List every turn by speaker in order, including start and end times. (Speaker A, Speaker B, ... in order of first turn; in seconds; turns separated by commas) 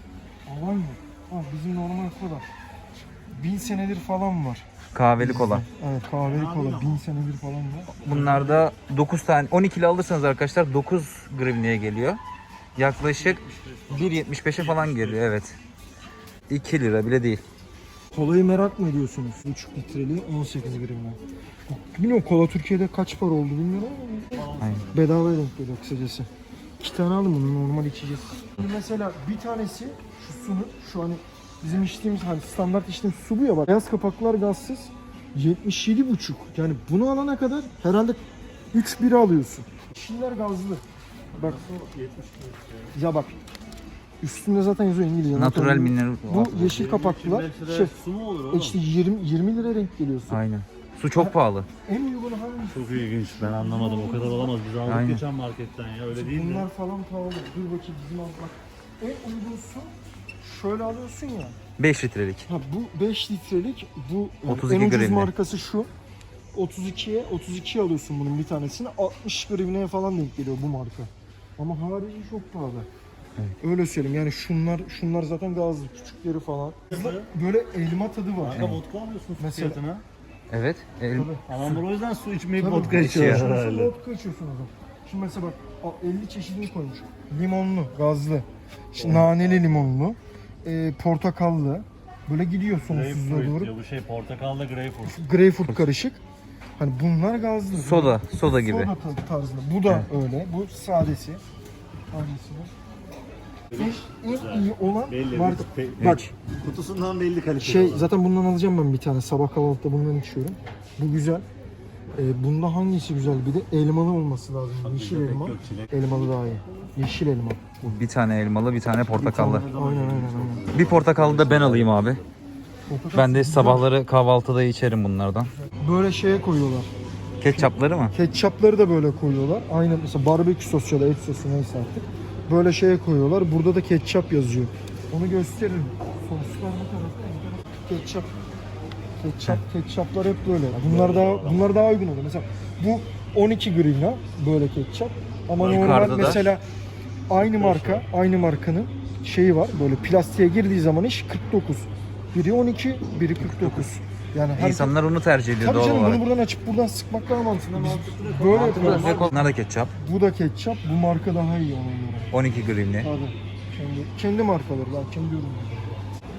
Speaker A: 0.5-2.4, Speaker A: 3.3-7.9, Speaker B: 4.9-5.6, Speaker C: 6.2-7.1, Speaker C: 8.0-8.7, Speaker B: 8.0-12.2, Speaker B: 12.8-15.6, Speaker C: 12.9-15.3, Speaker B: 16.5-17.4, Speaker A: 18.1-38.2, Speaker C: 24.3-25.0, Speaker A: 38.7-40.8, Speaker C: 41.3-42.9, Speaker A: 42.9-43.4, Speaker A: 44.2-47.9, Speaker B: 45.3-46.7, Speaker C: 46.5-48.8, Speaker A: 48.5-50.4, Speaker B: 50.3-51.7, Speaker A: 51.9-54.5, Speaker C: 52.7-56.7, Speaker B: 54.9-55.2, Speaker A: 56.1-59.9, Speaker A: 60.4-61.6, Speaker B: 61.8-62.5, Speaker A: 62.5-65.9, Speaker B: 64.5-65.3, Speaker A: 66.5-72.9, Speaker A: 73.6-78.7, Speaker C: 76.9-77.3, Speaker C: 78.4-80.0, Speaker B: 78.5-78.8, Speaker A: 79.4-79.8, Speaker B: 80.5-81.8, Speaker A: 81.2-81.4, Speaker C: 81.5-83.9, Speaker A: 82.6-93.7, Speaker B: 82.8-83.5, Speaker C: 89.0-89.7, Speaker C: 92.8-95.2, Speaker A: 95.0-96.2, Speaker A: 96.8-101.4, Speaker B: 97.7-98.9, Speaker A: 102.1-102.7, Speaker C: 103.7-108.1, Speaker A: 103.8-106.3, Speaker A: 107.6-111.4, Speaker A: 112.2-118.0, Speaker C: 114.8-116.0, Speaker B: 117.8-119.7, Speaker A: 119.2-120.7, Speaker C: 119.2-122.3, Speaker B: 120.7-122.2, Speaker A: 122.9-123.9, Speaker B: 123.1-125.5, Speaker A: 125.7-126.9, Speaker B: 127.4-128.1, Speaker A: 127.5-138.3, Speaker A: 139.2-146.6, Speaker C: 140.7-141.8, Speaker C: 145.6-146.5, Speaker B: 145.6-146.4, Speaker A: 147.3-154.9, Speaker C: 147.4-148.1, Speaker B: 153.4-153.9, Speaker B: 154.6-156.2, Speaker A: 155.6-159.3, Speaker C: 157.6-159.5, Speaker B: 158.5-159.9, Speaker A: 160.0-162.3, Speaker B: 162.3-163.1, Speaker A: 163.0-166.0